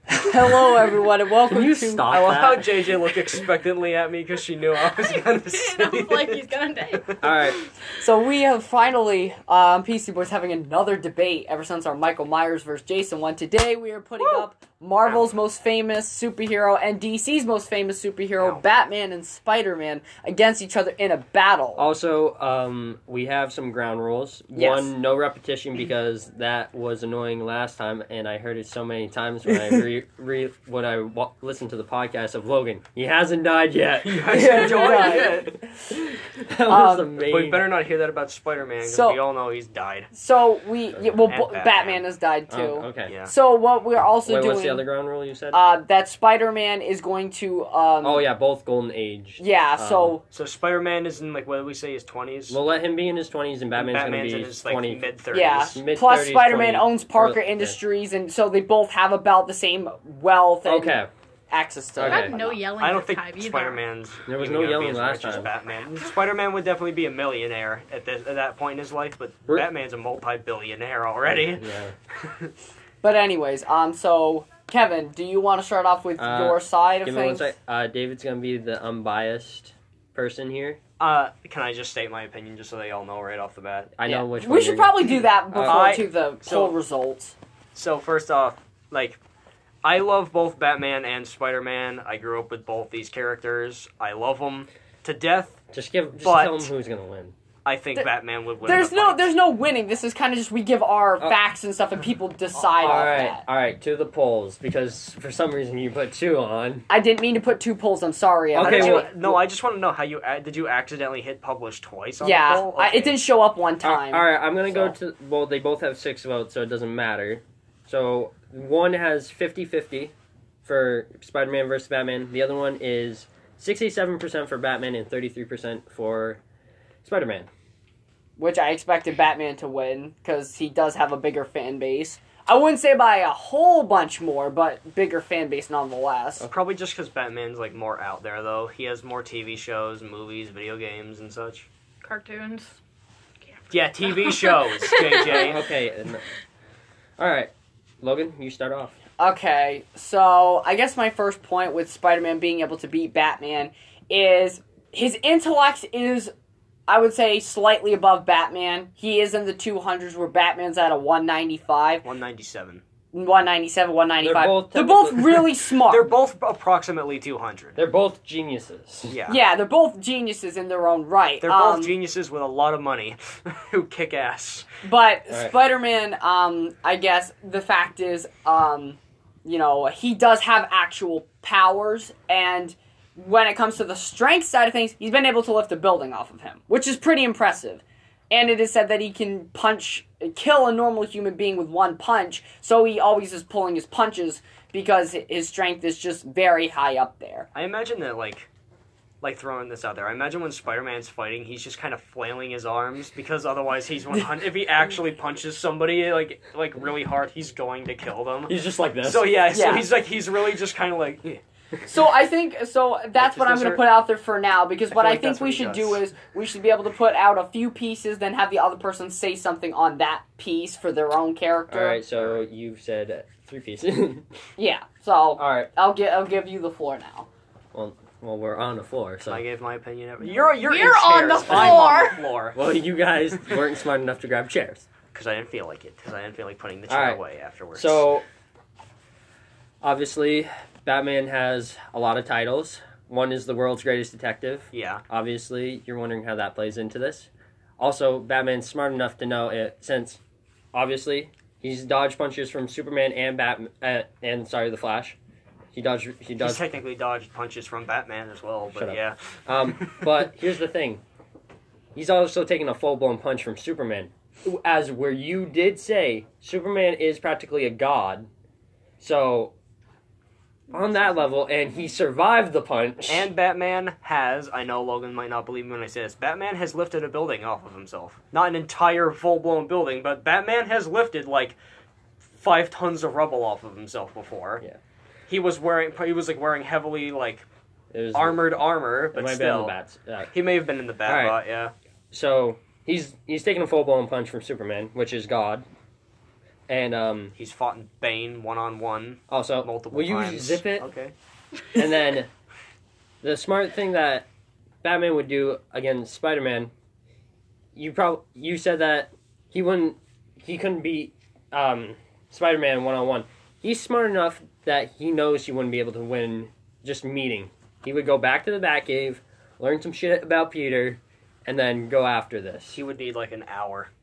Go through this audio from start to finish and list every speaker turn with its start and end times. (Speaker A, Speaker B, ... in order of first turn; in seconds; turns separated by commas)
Speaker A: 0.1-3.1, Speaker B: 0.2-2.1, Speaker C: 2.1-7.2, Speaker D: 4.8-7.7, Speaker A: 7.2-7.6, Speaker B: 8.0-21.8, Speaker C: 15.0-15.3, Speaker A: 21.8-37.7, Speaker B: 24.5-24.9, Speaker C: 34.0-35.6, Speaker B: 34.3-35.5, Speaker B: 36.7-37.1, Speaker C: 37.2-40.1, Speaker B: 38.8-39.2, Speaker B: 40.1-44.9, Speaker C: 41.2-42.0, Speaker A: 42.5-43.1, Speaker C: 43.1-43.3, Speaker A: 44.3-45.6, Speaker B: 45.5-48.3, Speaker A: 48.0-50.2, Speaker B: 49.4-50.2, Speaker C: 50.3-52.6, Speaker A: 52.5-55.0, Speaker C: 53.8-55.8, Speaker B: 55.3-62.6, Speaker A: 55.6-57.8, Speaker A: 60.6-61.1, Speaker A: 62.0-62.4, Speaker D: 62.0-63.8, Speaker C: 62.8-71.7, Speaker A: 64.3-65.5, Speaker A: 71.3-71.9, Speaker C: 72.2-72.5, Speaker B: 73.0-77.5, Speaker A: 76.2-80.8, Speaker C: 81.0-83.9, Speaker A: 84.0-85.9, Speaker B: 84.0-87.4, Speaker C: 85.6-86.7, Speaker C: 87.8-89.2, Speaker C: 89.8-95.6, Speaker A: 95.7-97.3, Speaker C: 96.2-96.7, Speaker C: 97.7-99.3, Speaker B: 98.6-103.4, Speaker A: 102.6-106.9, Speaker B: 106.9-109.1, Speaker A: 108.5-109.4, Speaker C: 108.6-113.2, Speaker B: 112.2-115.0, Speaker A: 113.8-120.1, Speaker A: 120.7-126.4, Speaker A: 127.0-127.5, Speaker B: 128.4-136.5, Speaker C: 136.5-141.7, Speaker D: 142.0-142.8, Speaker D: 143.5-145.6, Speaker C: 143.7-145.7, Speaker A: 145.2-146.3, Speaker A: 147.2-149.0, Speaker B: 149.2-156.3, Speaker B: 156.9-162.1, Speaker C: 162.0-162.8, Speaker B: 163.1-166.1, Speaker A: 164.2-165.5, Speaker C: 165.9-167.8, Speaker A: 167.8-169.2, Speaker C: 169.1-169.4, Speaker B: 169.3-171.9, Speaker C: 171.4-174.7, Speaker B: 174.8-197.5, Speaker C: 197.5-198.5, Speaker C: 199.2-211.4, Speaker A: 208.5-209.4, Speaker B: 209.5-209.9, Speaker B: 211.9-222.0, Speaker C: 213.2-213.8, Speaker C: 214.9-216.0, Speaker A: 221.7-224.3, Speaker B: 224.6-227.3, Speaker A: 225.4-225.7, Speaker A: 227.7-229.4, Speaker C: 229.2-232.6, Speaker B: 230.6-232.2, Speaker A: 231.5-231.9, Speaker A: 232.6-234.9, Speaker C: 235.1-238.0, Speaker A: 236.9-237.2, Speaker A: 237.8-238.2, Speaker A: 239.8-250.2, Speaker C: 244.7-245.0, Speaker A: 250.7-255.2, Speaker A: 255.7-256.7, Speaker C: 256.4-260.2, Speaker A: 258.7-261.0, Speaker A: 261.9-268.3, Speaker A: 269.0-269.5, Speaker A: 270.7-273.3, Speaker C: 273.1-281.6, Speaker C: 282.3-284.6, Speaker C: 285.3-287.4, Speaker A: 287.9-288.4, Speaker C: 288.1-289.8, Speaker A: 289.1-290.3, Speaker C: 290.3-291.7, Speaker A: 291.1-291.4, Speaker A: 292.1-295.6, Speaker A: 296.7-297.4, Speaker C: 297.4-301.1, Speaker A: 299.3-300.9, Speaker A: 301.7-302.3, Speaker A: 303.2-304.3, Speaker A: 304.8-306.7, Speaker A: 307.8-322.8, Speaker C: 322.7-323.9